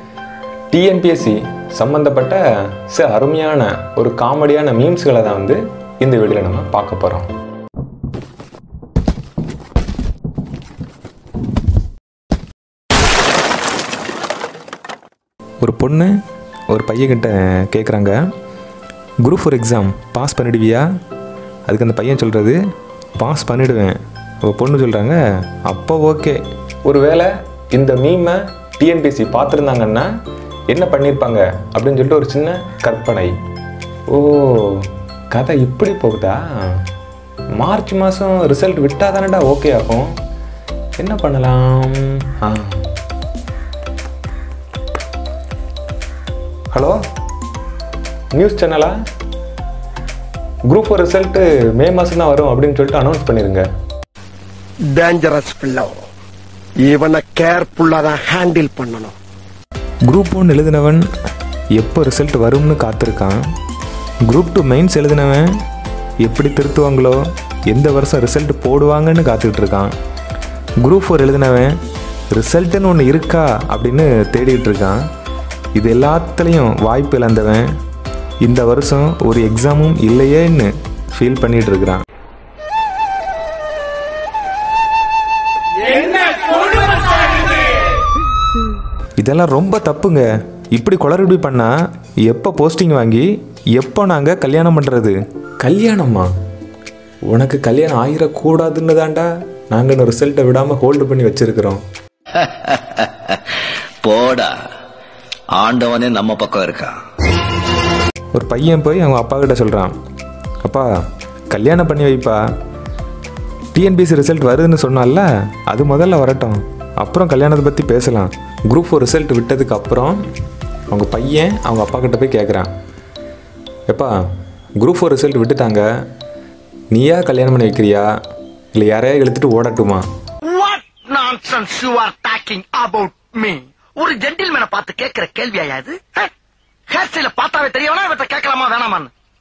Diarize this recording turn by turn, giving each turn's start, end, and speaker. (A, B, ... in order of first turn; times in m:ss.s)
0:00.7-0:07.3 A
0:15.6-0:16.1 A
0:16.7-0:18.2 A
0:19.2-0:20.8 A
0:21.7-0:22.6 A
0:23.2-0:30.1 A
0:30.7-0:33.3 A
0:34.1-0:36.8 A
0:37.6-0:40.1 A
0:41.0-0:42.8 A
0:46.7-0:47.0 A
0:48.4-0:48.9 A
0:50.7-0:53.6 A
0:55.0-0:55.9 B
0:56.8-0:59.1 B
1:00.1-1:01.0 A
1:01.8-1:03.4 A
1:04.3-1:05.5 A
1:06.2-1:09.9 A
1:10.8-1:11.7 A
1:12.3-1:15.0 A
1:15.8-1:17.7 A
1:18.4-1:22.0 A
1:29.2-1:31.7 A
1:32.3-1:36.3 A
1:37.3-1:41.8 A
1:42.4-1:43.4 C
1:44.0-1:44.5 C
1:45.5-1:47.0 C
1:48.3-1:49.9 A
1:51.5-1:52.4 A
1:53.7-2:00.2 A
2:00.9-2:02.7 A
2:04.8-2:05.8 A
2:06.9-2:08.1 A
2:08.8-2:10.0 A
2:10.5-2:16.3 D
2:16.9-2:19.1 D